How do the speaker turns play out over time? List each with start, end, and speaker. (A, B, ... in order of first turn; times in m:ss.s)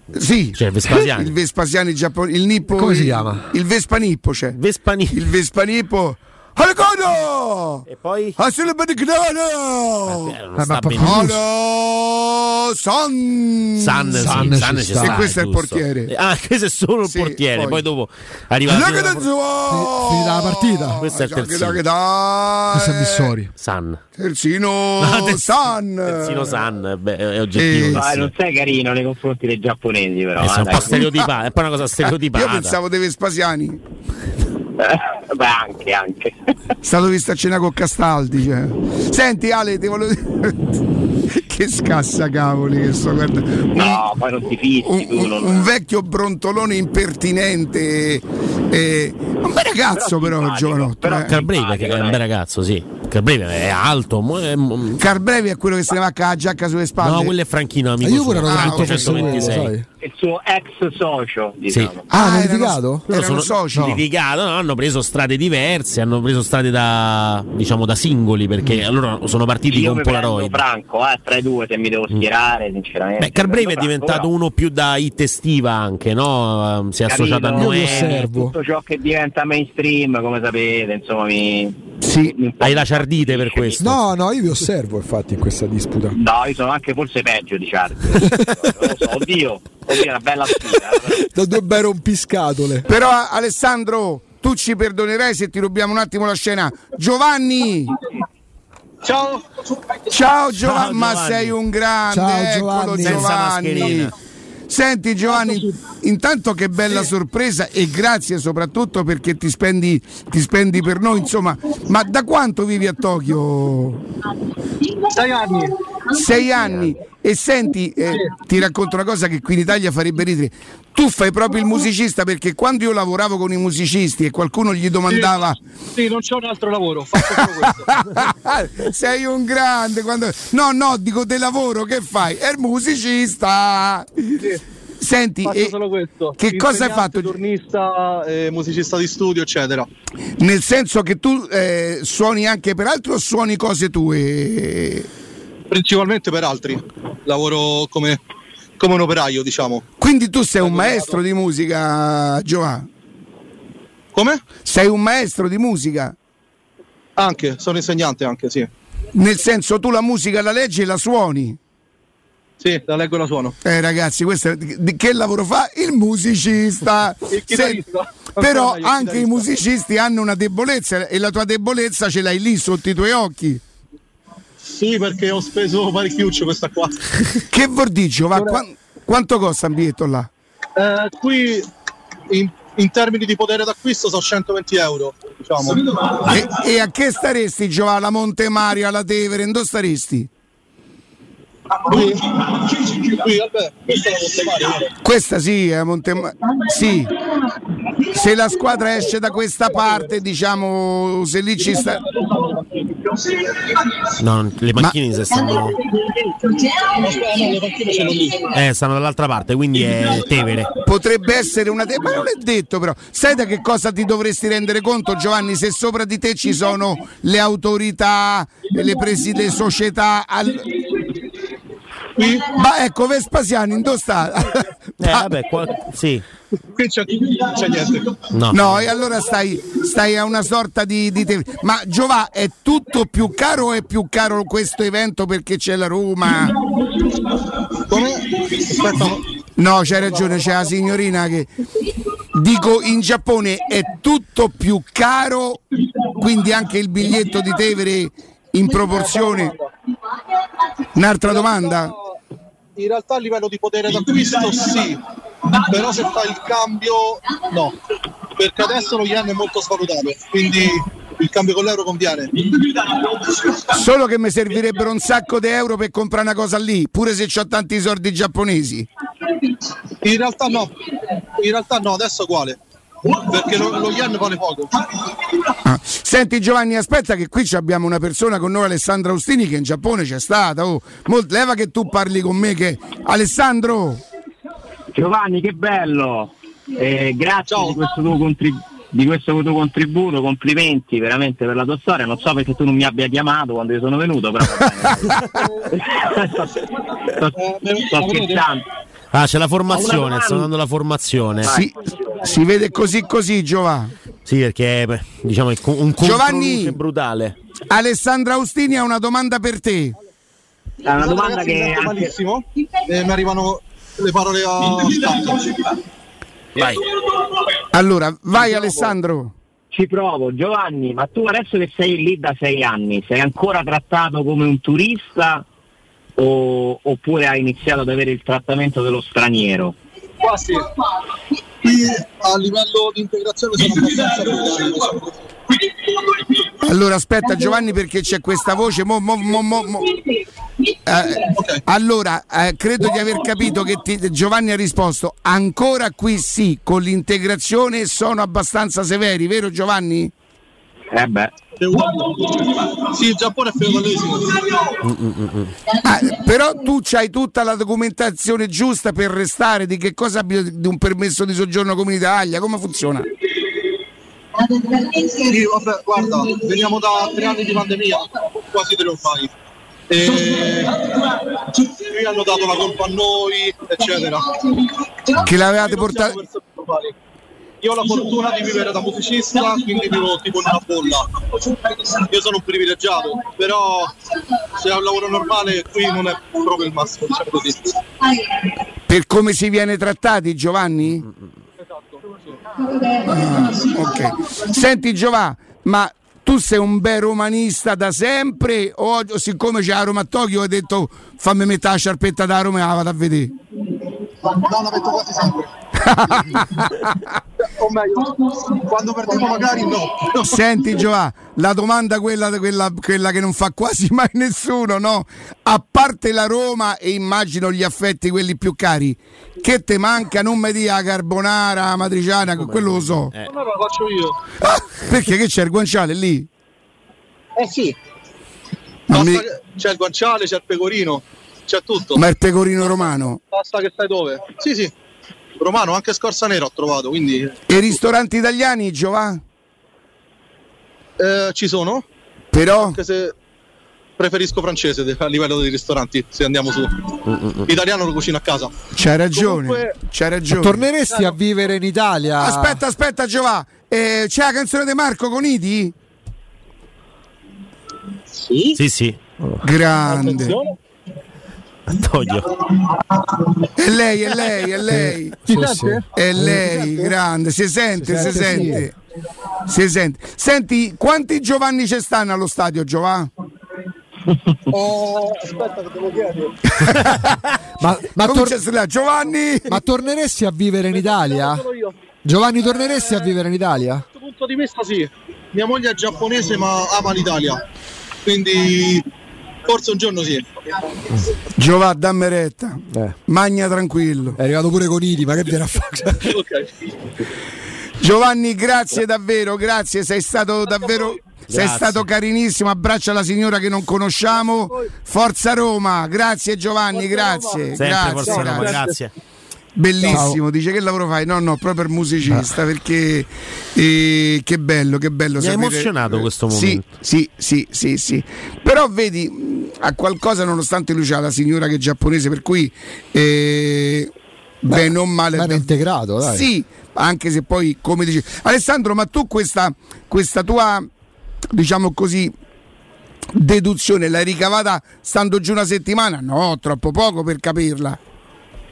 0:00.1-0:04.6 A
0:00.5-0:01.3 B
0:02.8-0:03.5 C
0:04.5-0:05.2 B
0:05.1-0:07.8 A
0:07.9-0:08.4 B
0:08.4-0:10.4 A
0:10.1-0:11.3 B
0:10.6-0:11.4 C
0:11.0-0:16.1 A
0:13.8-0:19.3 B
0:14.1-0:15.2 C
0:17.0-0:17.8 A
0:18.6-0:23.3 A
0:19.7-0:21.0 C
0:21.0-0:21.8 B
0:22.7-0:23.5 C
0:23.6-0:24.0 B
0:24.2-0:26.6 A
0:25.0-0:25.5 B
0:26.0-0:28.3 B
0:27.5-0:28.0 A
0:27.9-0:31.0 D
0:30.4-0:32.8 B
0:30.8-0:31.2 A
0:32.3-0:33.8 A
0:34.8-0:36.5 D
0:36.8-0:40.8 A
0:41.3-0:44.0 A
0:43.8-0:45.7 D
0:44.8-0:51.3 A
0:49.9-0:52.2 D
0:51.3-0:55.0 B
0:55.0-0:57.3 A
0:57.0-0:59.7 B
0:58.0-0:59.8 C
0:58.4-0:59.5 A
1:00.0-1:02.1 D
1:02.1-1:04.0 A
1:02.1-1:03.2 C
1:03.1-1:10.6 B
1:03.8-1:04.0 C
1:09.6-1:14.3 D
1:13.2-1:18.3 B
1:17.0-1:23.9 D
1:17.6-1:18.5 C
1:22.0-1:22.3 A
1:22.6-1:24.0 B
1:23.8-1:26.2 C
1:26.1-1:31.3 D
1:28.2-1:28.5 C
1:30.7-1:32.9 C
1:32.8-1:38.0 A
1:39.0-1:40.1 E
1:40.1-1:44.1 A
1:40.6-1:41.6 B
1:42.1-1:43.3 C
1:43.0-1:44.1 B
1:44.7-1:54.0 A
1:45.4-1:45.7 E
1:55.0-1:55.8 E
1:56.1-2:05.6 A
2:05.1-2:05.4 E
2:05.9-2:07.9 E
2:07.2-2:14.4 A
2:15.0-2:15.8 A
2:15.4-2:19.9 E
2:16.4-2:17.4 A
2:20.4-2:25.1 A
2:25.7-2:28.2 E
2:28.8-2:29.8 E
2:30.0-2:32.9 A
2:30.6-2:31.2 E
2:34.1-2:34.4 E
2:34.6-2:36.1 A
2:37.2-2:38.7 E
2:39.1-2:41.6 A
2:42.6-2:43.6 E
2:43.6-2:47.8 A
2:47.3-2:49.5 E
2:48.4-2:53.6 A
2:54.6-2:57.2 E
2:57.5-3:00.3 A
2:58.3-2:58.6 E
3:00.8-3:01.7 E
3:02.3-3:05.8 E
3:06.2-3:10.3 A
3:11.7-3:14.9 E
3:15.0-3:17.2 A
3:18.0-3:22.0 A
3:22.1-3:22.8 E
3:24.2-3:25.8 B
3:26.3-3:28.5 E
3:28.5-3:30.8 B
3:30.8-3:40.9 A
3:42.2-3:42.5 E
3:42.5-3:45.4 A
3:45.0-3:46.2 B
3:46.6-3:48.2 E
3:48.3-3:48.9 B
3:48.5-3:56.6 A
3:57.8-3:59.3 E
3:59.6-4:01.5 A
3:59.9-4:00.7 E
4:02.3-4:09.5 A
4:08.9-4:09.7 E
4:10.9-4:11.9 A
4:11.2-4:12.2 E
4:12.8-4:17.8 E
4:18.3-4:23.3 E
4:23.7-4:28.9 A
4:30.0-4:35.1 E
4:35.6-4:44.0 A
4:44.9-4:58.7 D
4:47.5-4:47.8 E
4:57.4-4:58.4 E
4:59.1-5:01.5 B
4:59.7-5:00.5 D
5:01.4-5:02.2 D
5:01.4-5:03.9 A
5:04.2-5:07.4 B
5:06.0-5:06.8 A
5:07.7-5:10.0 A
5:10.8-5:12.1 D
5:11.0-5:15.8 E
5:16.6-5:16.8 B
5:17.7-5:19.3 A
5:18.4-5:18.9 E
5:19.7-5:25.4 D
5:26.2-5:29.8 D
5:30.2-5:30.8 E
5:31.6-5:36.3 E
5:36.6-5:40.0 A
5:40.8-5:50.1 A
5:41.3-5:41.6 E
5:50.9-5:51.3 D
5:51.6-5:54.8 E
5:54.8-5:55.6 B
5:55.8-6:03.1 A
6:05.0-6:09.3 E
6:09.9-6:14.6 E
6:15.2-6:16.2 A
6:15.4-6:17.0 E
6:17.6-6:24.0 E
6:24.5-6:27.8 E
6:28.9-6:31.0 A
6:31.8-6:32.7 E
6:33.0-6:43.3 A
6:44.2-6:45.5 E
6:45.8-6:47.2 A
6:47.4-6:50.4 E
6:50.2-7:03.1 A
7:02.3-7:03.3 B
7:03.2-7:04.2 E
7:04.4-7:06.3 A
7:07.4-7:07.8 E
7:08.9-7:09.2 A
7:08.9-7:12.0 E
7:12.0-7:13.2 A
7:12.8-7:14.7 E
7:15.4-7:17.4 E
7:17.5-7:19.2 A
7:21.0-7:21.8 E
7:22.3-7:22.8 A
7:22.6-7:23.1 E
7:24.0-7:28.5 E
7:28.7-7:30.6 A
7:29.2-7:29.8 E
7:30.3-7:32.6 C
7:32.2-7:35.7 A
7:38.1-7:38.6 E
7:38.5-7:39.0 B
7:39.4-7:40.4 A
7:39.8-7:40.6 E
7:41.7-7:42.4 B
7:43.6-7:45.2 A
7:44.6-7:46.4 C
7:45.3-7:46.9 E
7:45.9-7:48.7 A
7:47.8-7:48.7 C
7:48.0-7:48.6 E
7:49.4-7:53.1 A
7:54.5-7:56.4 E
7:56.6-7:57.2 A
7:57.6-7:58.4 C
7:58.0-7:59.6 A
7:59.5-8:01.5 C
8:00.7-8:01.7 E
8:02.0-8:03.8 C
8:03.9-8:07.4 E
8:08.0-8:08.8 E
8:09.4-8:10.6 E
8:11.3-8:14.2 A
8:12.7-8:13.0 C
8:14.2-8:16.2 C
8:15.9-8:16.5 E
8:17.8-8:28.6 A
8:21.3-8:21.8 B
8:26.7-8:28.8 E
8:27.5-8:28.9 B
8:29.5-8:43.9 A
8:29.8-8:30.2 C
8:32.0-8:32.4 C
8:35.2-8:36.6 B
8:44.4-8:45.5 A
8:44.5-8:46.3 C
8:46.0-8:50.7 A
8:51.3-8:52.1 A
8:53.1-8:57.8 A